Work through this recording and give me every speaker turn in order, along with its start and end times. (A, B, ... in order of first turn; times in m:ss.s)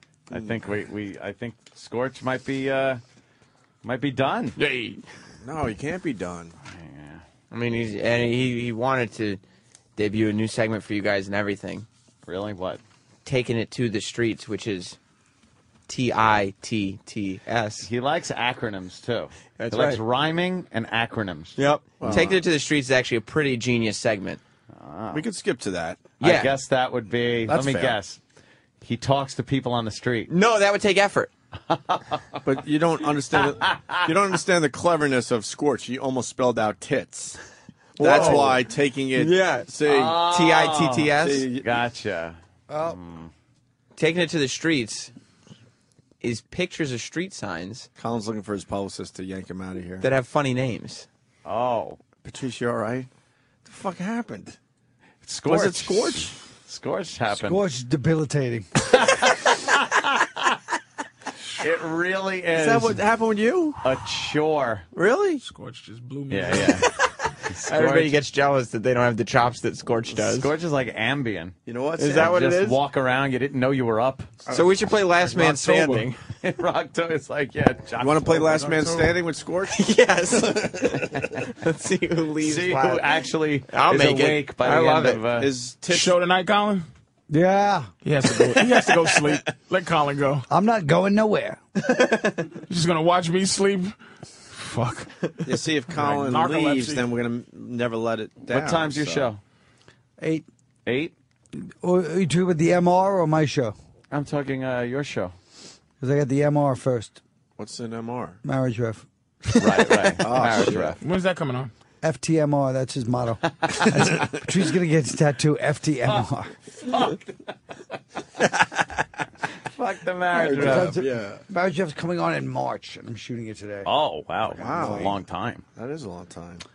0:00.3-0:03.0 A
0:00.3-0:00.6 B
0:03.8-0:04.6 A
0:04.6-0:05.0 C
0:05.4-0:06.5 B
0:06.6-0:07.2 A
0:07.5-0:09.4 C
0:10.0-0:11.8 C
0:12.2-0:12.8 A
0:13.2-0:15.0 C
0:15.9-0:17.9 C
0:17.8-0:22.3 A
0:19.6-0:20.0 C
0:21.6-0:24.4 C
0:22.0-0:22.4 B
0:24.7-0:25.2 A
0:25.1-0:26.1 B
0:26.2-0:26.5 C
0:26.2-0:28.2 A
0:27.5-0:28.0 B
0:28.8-0:30.3 A
0:30.3-0:31.3 C
0:31.7-0:32.4 A
0:32.4-0:37.4 B
0:33.3-0:34.1 A
0:38.0-0:41.5 C
0:38.0-0:40.2 B
0:38.2-0:38.4 A
0:39.8-0:43.3 A
0:41.2-0:41.6 B
0:42.7-0:43.0 D
0:44.0-0:45.1 C
0:46.2-0:47.9 C
0:48.0-0:50.0 B
0:50.0-0:51.1 C
0:51.4-0:52.0 A
0:52.2-0:53.1 B
0:53.6-0:54.6 B
0:55.2-0:57.6 A
0:55.4-0:56.4 B
0:57.3-0:58.7 D
0:58.8-1:00.6 A
1:01.6-1:03.0 A
1:02.5-1:03.8 B
1:03.8-1:04.9 A
1:04.9-1:05.4 B
1:05.4-1:06.9 E
1:06.3-1:06.9 A
1:07.5-1:08.2 A
1:07.6-1:10.5 C
1:10.1-1:11.6 A
1:11.6-1:12.4 B
1:12.0-1:12.8 C
1:12.1-1:14.3 A
1:14.4-1:14.8 B
1:14.5-1:16.2 C
1:16.4-1:19.1 A
1:18.0-1:19.8 B
1:19.7-1:23.1 C
1:20.4-1:20.9 B
1:22.4-1:25.5 A
1:23.7-1:25.2 C
1:25.3-1:26.2 B
1:25.9-1:26.9 E
1:27.3-1:27.9 D
1:28.0-1:30.4 E
1:29.0-1:29.3 B
1:30.5-1:31.6 D
1:31.8-1:32.3 C
1:32.7-1:33.9 E
1:34.5-1:35.1 E
1:35.4-1:39.3 B
1:35.9-1:37.1 E
1:38.5-1:39.4 A
1:40.2-1:40.4 D
1:40.8-1:41.1 A
1:41.8-1:43.8 D
1:44.1-1:45.3 A
1:46.0-1:47.2 D
1:47.6-1:48.4 B
1:48.4-1:49.0 D
1:49.6-1:51.0 A
1:50.2-1:51.0 B
1:51.0-1:51.7 E
1:52.0-1:56.5 D
1:53.7-1:53.9 A
1:56.0-1:57.5 A
1:59.8-2:01.0 A
2:00.3-2:01.4 B
2:00.4-2:03.9 D
2:03.8-2:05.6 A
2:04.5-2:05.2 B
2:04.6-2:05.1 D
2:05.8-2:06.6 B